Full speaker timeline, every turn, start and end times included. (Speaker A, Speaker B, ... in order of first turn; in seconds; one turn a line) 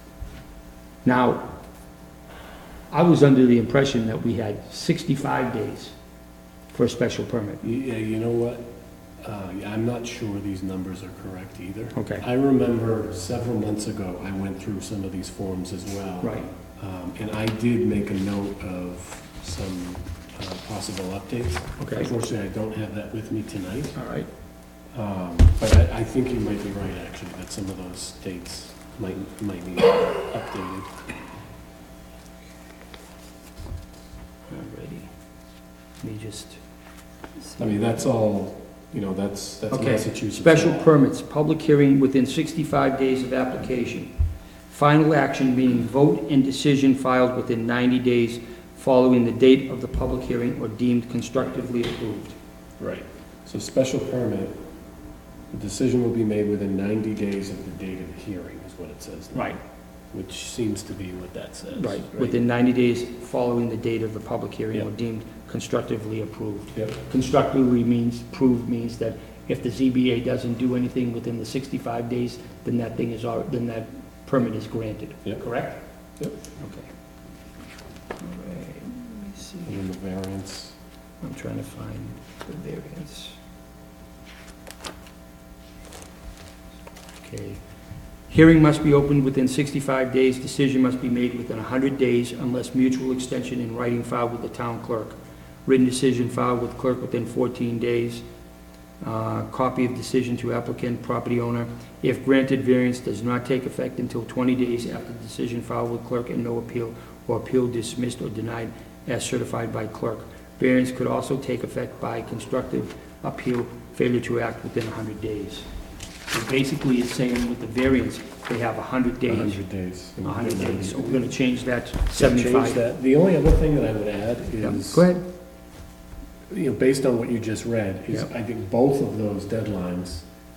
Speaker A: 1.0-1.5
Speaker A: 2.9-5.9
Speaker A: 6.7-7.6
Speaker B: 7.6-8.7
Speaker B: 9.2-24.0
Speaker A: 11.9-12.2
Speaker A: 16.2-16.5
Speaker A: 21.8-22.1
Speaker A: 23.9-24.3
Speaker B: 24.9-30.9
Speaker A: 34.5-35.1
Speaker A: 36.0-36.6
Speaker B: 37.6-40.9
Speaker A: 39.7-44.1
Speaker A: 44.7-52.4
Speaker B: 52.8-54.6
Speaker B: 55.5-59.5
Speaker B: 60.1-62.4
Speaker A: 61.7-75.8
Speaker A: 76.6-76.9
Speaker A: 78.2-79.7
Speaker B: 79.7-80.7
Speaker A: 81.2-83.4
Speaker A: 87.2-87.6
Speaker A: 88.3-98.2
Speaker A: 99.0-115.7
Speaker A: 116.3-119.6
Speaker B: 119.3-121.2
Speaker A: 120.2-122.8
Speaker B: 122.1-125.1
Speaker A: 124.6-125.2
Speaker B: 126.5-130.2